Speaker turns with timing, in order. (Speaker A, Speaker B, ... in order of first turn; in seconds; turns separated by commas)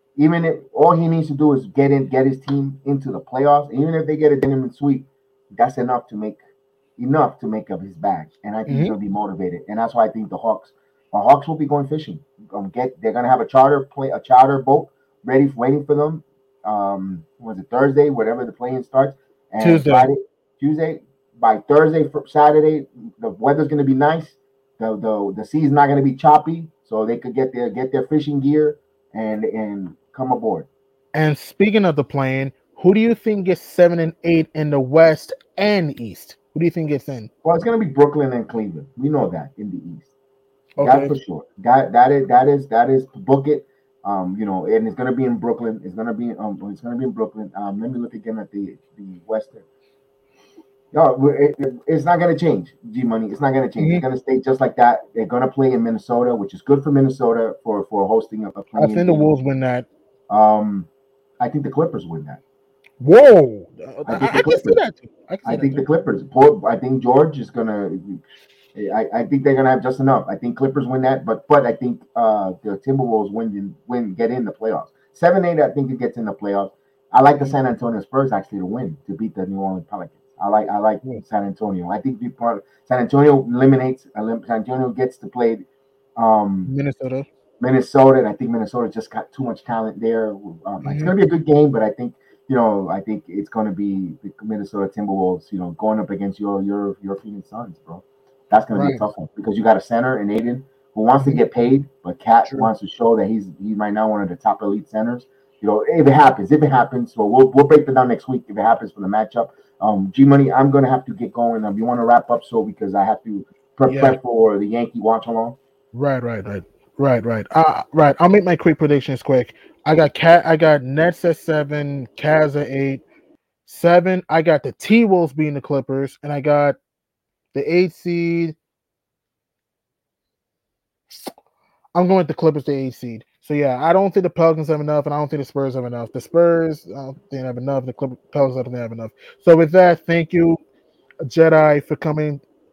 Speaker A: 0.2-6.4, Speaker A: 7.0-30.7, Speaker B: 8.7-8.9, Speaker B: 19.6-20.1, Speaker B: 31.1-37.3, Speaker A: 37.4-40.1, Speaker B: 40.8-41.1, Speaker A: 40.8-49.6, Speaker A: 50.9-59.3, Speaker B: 53.8-54.0, Speaker B: 58.8-59.9, Speaker A: 60.3-60.9, Speaker A: 61.4-62.4, Speaker B: 63.0-65.8, Speaker A: 64.1-64.8, Speaker A: 65.5-68.2, Speaker A: 68.8-85.7, Speaker A: 86.2-86.7, Speaker B: 86.7-87.3, Speaker A: 87.6-115.6, Speaker B: 90.8-91.1, Speaker B: 98.7-99.0, Speaker B: 113.9-114.2, Speaker B: 115.9-123.0, Speaker B: 123.7-126.8, Speaker B: 127.5-128.6, Speaker B: 131.9-140.6, Speaker B: 141.2-142.4